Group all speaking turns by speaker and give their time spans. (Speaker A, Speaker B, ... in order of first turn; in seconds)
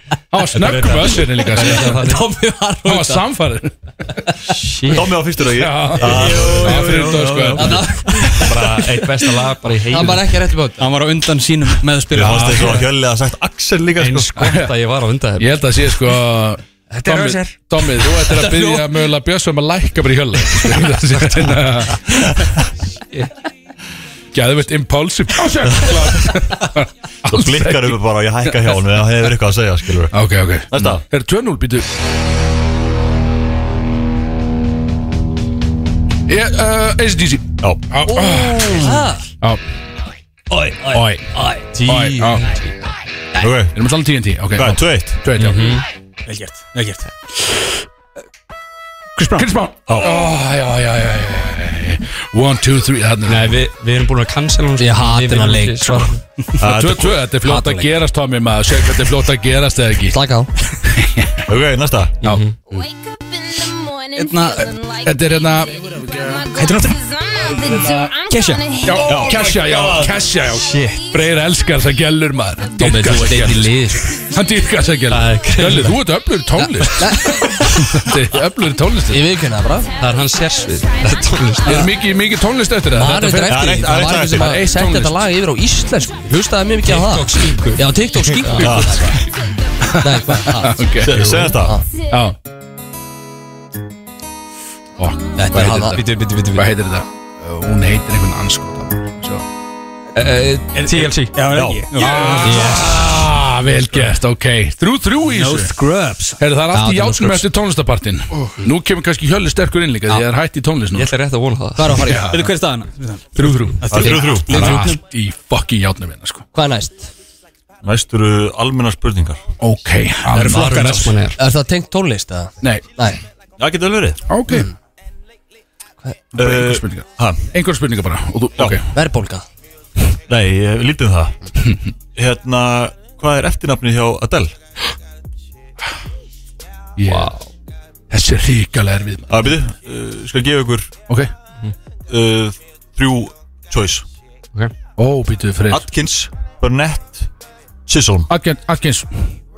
Speaker A: 0.3-2.1, 2.8-8.6, 12.4-12.7, 14.3-14.7, 15.4-22.3, 24.3-28.0, 30.1-31.9, 36.3-39.6, 40.9-41.2, 41.8-42.5, 43.7-45.8, 49.3-53.5, 56.6-60.1, 60.8-61.5, 62.2-62.9, 65.0-66.5, 67.4-68.2, 68.8-79.2, 81.6-83.6, 84.3-85.3, 89.8-91.4, 92.0-92.4, 95.0-96.0, 96.5-99.4, 102.0-105.7, 106.4-111.1, 112.0-112.5, 113.3-116.4, 119.6-121.2, 124.3-124.7, 126.3-128.8, 137.0-137.3, 138.1-139.6, 145.0-145.9, 148.3-149.1
Speaker B: 0.5-2.2, 6.7-7.7, 8.4-10.4, 14.0-15.8, 41.7-42.7, 45.4-45.8, 53.2-56.2, 62.2-62.5, 75.1-76.0, 80.0-81.9, 86.8-88.9, 95.6-96.7, 100.1-101.4, 110.9-112.2, 120.4-121.4, 137.0-137.5
Speaker C: 1.4-3.2, 4.5-5.1, 7.5-8.8, 9.9-10.9, 16.9-18.8, 38.0-39.2, 40.8-41.6, 54.8-56.1, 57.4-57.9, 60.1-60.5, 72.8-74.1, 76.6-77.7, 79.1-79.9, 82.9-89.2, 90.0-90.8, 91.6-91.8, 95.3-96.0, 102.4-102.9, 106.7-107.5, 111.8-112.3, 116.5-117.1, 121.3-123.2, 128.9-129.4
Speaker D: 4.9-7.7, 8.4-8.9, 12.1-14.4, 22.1-22.5, 27.3-30.1, 30.7-31.0, 37.6-37.8, 43.4-43.8, 44.5-45.2, 49.9-50.3, 56.6-57.3, 61.5-62.2, 69.0-70.2, 83.5-84.6, 88.6-89.1, 91.0-91.8, 101.5-101.9, 113.9-114.8, 117.8-119.4, 123.6-124.2, 126.3-127.5, 130.3-131.4, 132.1-134.5, 139.3-140.9, 142.1-144.1, 145.7-147.3, 147.9-148.3
Speaker E: 6.5-7.3, 10.8-12.8, 46.3-47.1, 49.2-49.5, 64.1-64.8, 66.5-67.1, 68.2-68.9, 100.7-103.0, 105.3-106.4, 112.3-115.0, 120.2-121.2